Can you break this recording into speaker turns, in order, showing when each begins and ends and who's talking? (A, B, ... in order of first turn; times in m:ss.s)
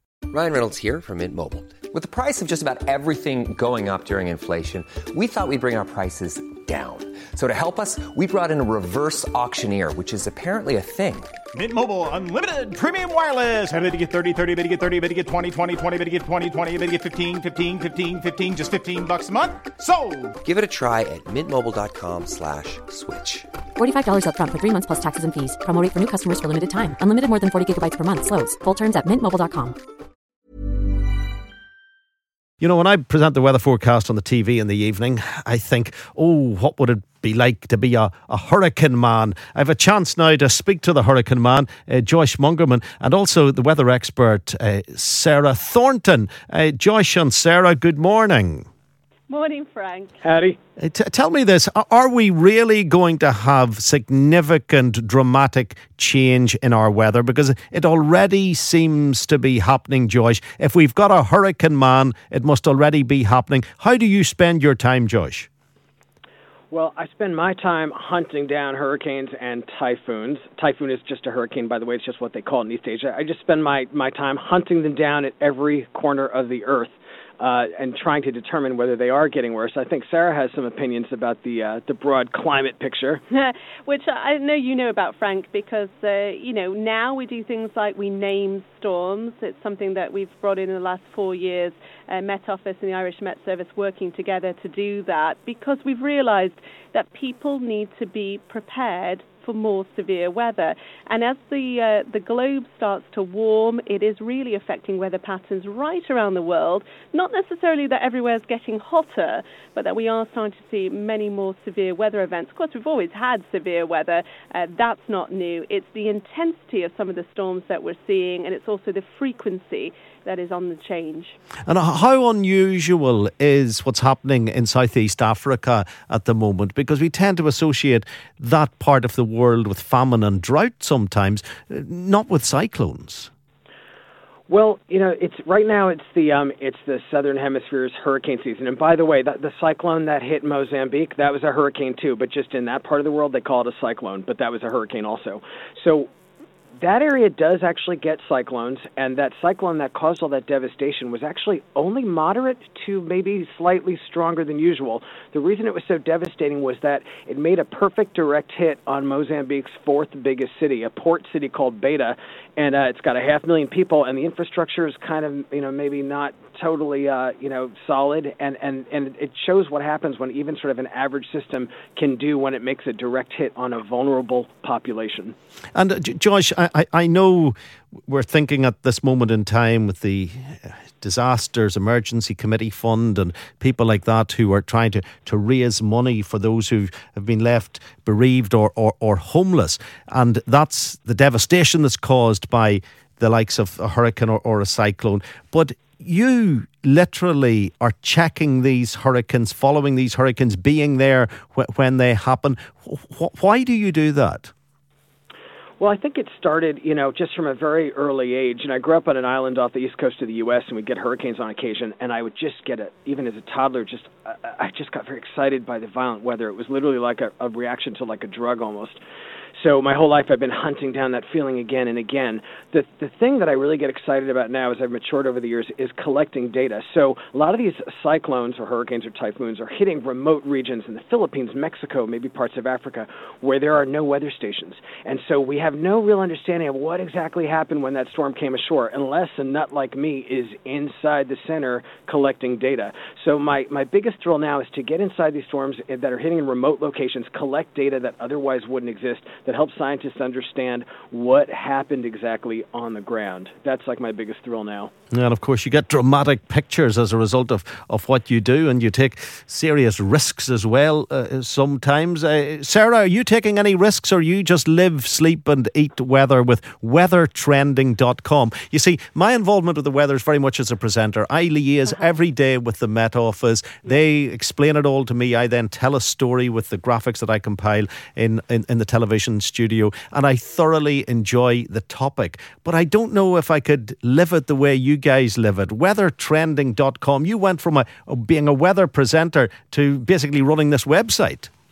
0:00.3-0:11.3 A
0:11.5-0:20.4 B
0:20.4-0:23.5 A
0:23.8-0:29.8 C
0:32.6-0:48.6 D
0:49.3-0:50.2 E
0:50.2-0:50.6 F
0:50.8-1:05.5 D
1:06.7-1:23.2 F
1:23.3-2:01.4 E
2:01.7-2:13.3 D
2:14.5-2:26.1 F
2:26.8-2:55.3 F
2:55.7-2:57.5 D
2:58.1-3:24.5 D
3:25.8-3:39.0 F
3:39.6-4:14.9 F
4:15.1-4:51.5 D